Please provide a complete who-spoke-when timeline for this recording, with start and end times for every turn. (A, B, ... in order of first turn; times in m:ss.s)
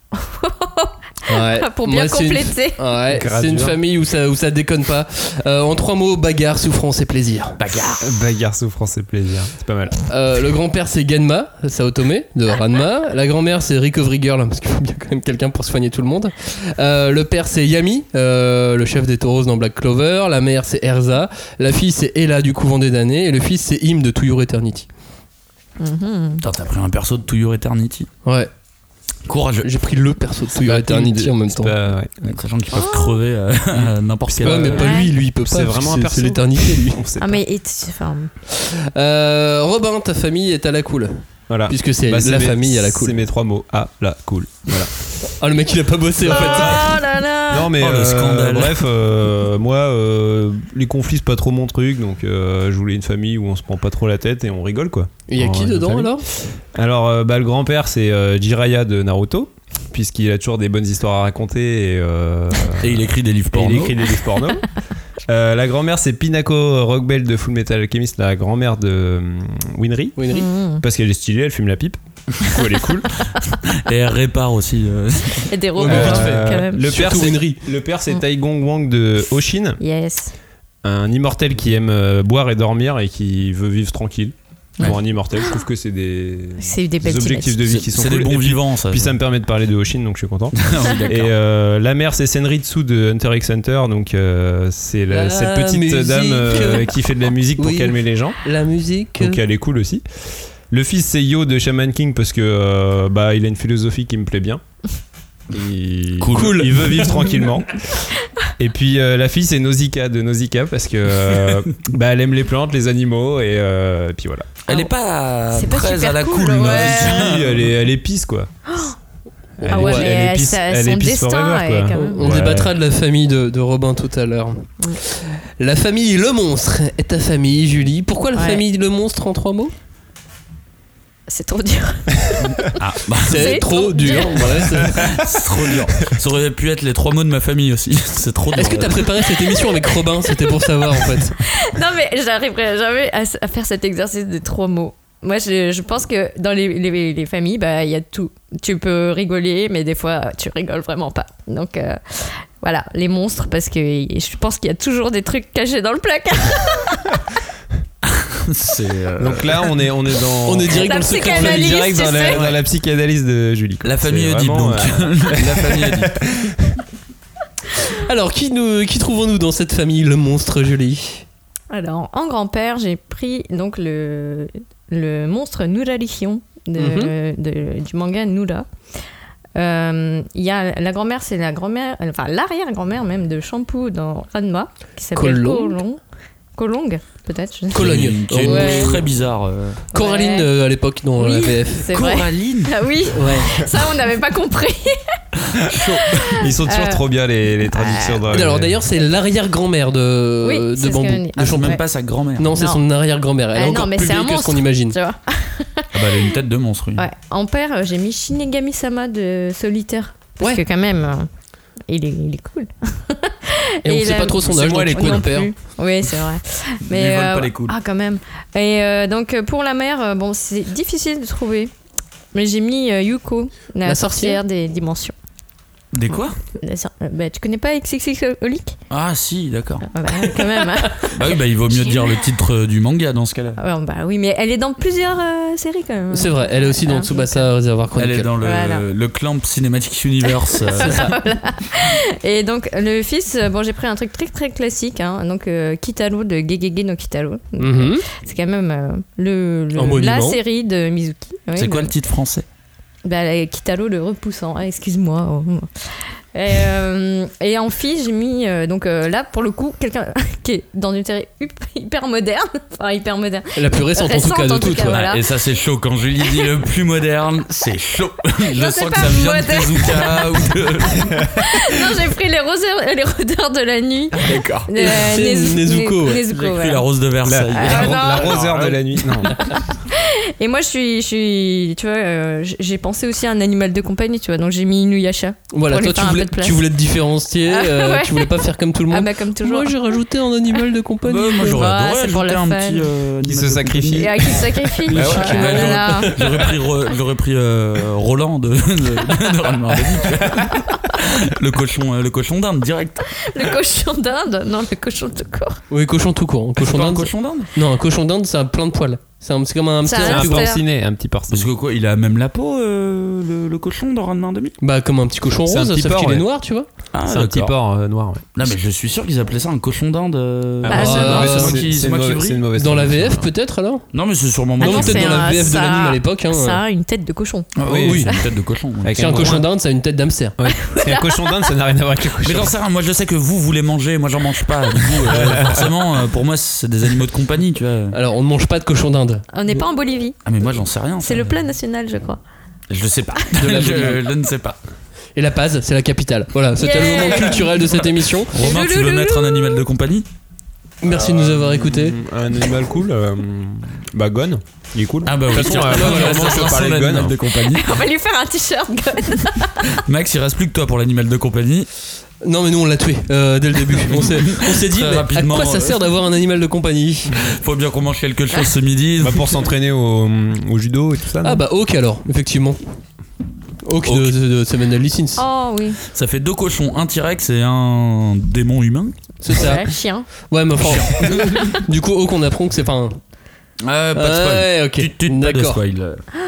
0:00.1-0:02.8 A
0:01.3-0:07.6 B
0:03.1-0:03.8 C
0:07.6-0:08.1 D
0:08.0-0:10.0 C
0:10.1-0:24.9 B
0:25.8-0:26.4 A
0:26.4-0:28.1 D
0:28.2-0:28.5 B
0:29.3-0:29.7 D
0:29.6-0:31.8 B
0:30.5-0:32.4 C
0:32.2-0:35.0 D
0:32.7-0:33.2 A
0:33.7-0:37.4 C
0:34.4-0:37.0 B
0:34.8-0:35.1 A
0:37.2-0:38.3 A
0:38.5-0:43.2 B
0:41.5-0:44.9 C
0:45.4-0:46.8 B
0:46.2-1:04.7 C
0:46.3-0:47.8 A
0:47.8-0:48.8 D
0:55.3-0:56.2 B
1:02.8-1:04.0 D
1:05.3-1:10.2 C
1:10.2-1:10.5 B
1:10.3-1:10.8 A
1:10.8-1:13.3 C
1:13.7-1:15.5 D
1:15.3-1:17.3 A
1:15.8-1:17.6 B
1:15.8-1:19.8 C
1:19.8-1:20.3 A
1:20.8-1:38.4 C
1:26.6-1:27.6 A
1:27.7-1:29.2 D
1:30.6-1:31.3 D
1:35.1-1:37.0 B
1:37.6-1:39.4 B
1:39.2-1:40.0 C
1:40.7-1:44.6 C
1:45.5-1:47.8 C
1:46.2-1:46.7 D
1:46.3-1:47.3 B
1:48.6-1:54.5 C
1:54.7-1:57.7 D
1:55.5-1:57.3 A
1:56.6-1:58.5 C
1:58.7-1:59.0 A
1:59.6-2:02.7 C
1:59.6-2:02.6 A
1:59.7-2:00.2 B
2:01.9-2:09.7 B
2:08.4-2:08.6 A
2:11.3-2:12.7 A
2:12.4-2:19.2 D
2:13.2-2:15.1 B
2:13.3-2:14.8 A
2:18.6-2:21.4 B
2:21.3-2:37.2 A
2:38.0-2:39.6 D
2:39.2-2:46.8 C
2:40.5-2:42.1 B
2:40.7-2:42.4 A
2:42.2-2:42.6 D
2:43.8-2:46.2 D
2:48.0-2:51.2 B
2:51.7-2:58.7 A
2:56.8-2:57.1 B
2:59.6-3:06.0 A
3:05.2-3:05.8 B
3:06.6-3:09.0 A
3:07.7-3:09.1 B
3:07.7-3:09.8 D
3:09.9-3:10.5 A
3:09.9-3:11.9 B
3:11.2-3:15.2 A
3:11.9-3:12.7 D
3:13.1-3:13.5 B
3:15.6-3:16.4 D
3:15.8-3:17.1 A
3:16.3-3:18.8 C
3:17.6-3:18.4 A
3:18.3-3:21.8 B
3:20.4-3:21.8 A
3:21.4-3:22.6 D
3:22.4-3:25.0 B
3:22.6-3:22.8 A
3:23.6-3:26.2 A
3:25.9-3:27.0 D
3:27.0-3:31.3 A
3:31.9-3:41.7 A
3:33.8-3:35.5 B
3:34.5-3:35.1 C
3:36.9-3:37.8 D
3:42.3-3:45.2 A
3:43.8-3:44.4 B
3:45.9-3:46.4 D
3:46.1-3:48.7 A
3:48.9-3:49.9 D
3:49.9-3:51.1 A
3:50.9-3:53.6 D
3:53.6-3:57.5 A
3:56.1-3:58.3 B
3:58.0-4:01.2 D
3:58.4-3:58.8 A
4:00.5-4:11.9 A
4:00.8-4:01.1 B
4:07.6-4:08.0 B
4:09.8-4:10.4 B
4:11.6-4:12.4 D
4:13.0-4:25.2 A
4:23.6-4:25.0 B
4:24.7-4:31.6 D
4:28.6-4:36.8 A
4:34.2-4:34.7 D
4:34.8-4:36.2 B
4:36.3-4:39.3 D
4:37.2-4:39.4 C
4:37.5-4:38.4 A
4:39.3-4:46.6 A
4:45.5-4:51.7 B
4:47.5-4:48.4 A
4:48.9-4:50.0 A
4:51.0-5:03.0 D
4:51.4-4:52.9 A
4:53.2-4:54.4 C
4:54.0-4:56.1 A
4:54.9-4:55.8 C
4:55.6-4:56.5 B
5:03.2-5:05.6 A
5:05.7-5:10.5 B
5:06.6-5:07.5 D
5:09.8-5:10.6 A
5:10.0-5:11.5 C
5:11.3-5:14.6 D
5:14.6-5:16.7 B
5:15.5-5:16.3 C
5:16.9-5:17.6 D
5:17.0-5:18.2 C
5:18.4-5:22.4 D
5:20.6-5:23.3 C
5:20.7-5:21.3 A
5:20.7-5:21.6 B
5:22.6-5:23.8 B
5:23.9-5:25.5 D
5:24.6-5:26.6 B
5:24.6-5:28.2 A
5:27.6-5:29.4 D
5:27.6-5:28.1 C
5:27.7-5:28.1 B
5:28.8-5:29.5 C
5:29.0-5:30.4 B
5:30.4-5:32.5 C
5:30.5-5:31.4 A
5:32.2-5:38.0 D
5:35.1-5:35.7 C
5:37.9-5:39.2 B
5:39.3-5:40.2 A
5:40.2-5:41.4 D
5:41.0-5:42.2 A
5:42.7-5:44.6 D
5:43.4-5:44.0 B
5:45.2-5:48.3 B
5:46.6-5:47.4 A
5:48.3-5:50.1 D
5:48.4-5:49.6 A
5:50.8-5:52.0 B
5:50.8-5:57.2 C
5:55.0-5:57.7 D
5:55.4-5:56.5 B
5:57.4-5:59.8 A
5:59.7-6:01.7 D
6:02.2-6:07.2 B
6:03.9-6:05.8 D
6:07.2-6:09.4 D
6:09.0-6:11.4 C
6:11.2-6:12.6 B
6:13.6-6:15.2 B
6:13.8-6:14.1 D
6:15.2-6:15.8 A
6:15.9-6:19.0 D
6:19.2-6:19.7 B
6:19.3-6:20.1 A
6:20.3-6:23.0 B
6:20.6-6:21.6 D
6:21.2-6:21.5 A
6:23.6-6:26.0 D
6:24.0-6:25.6 B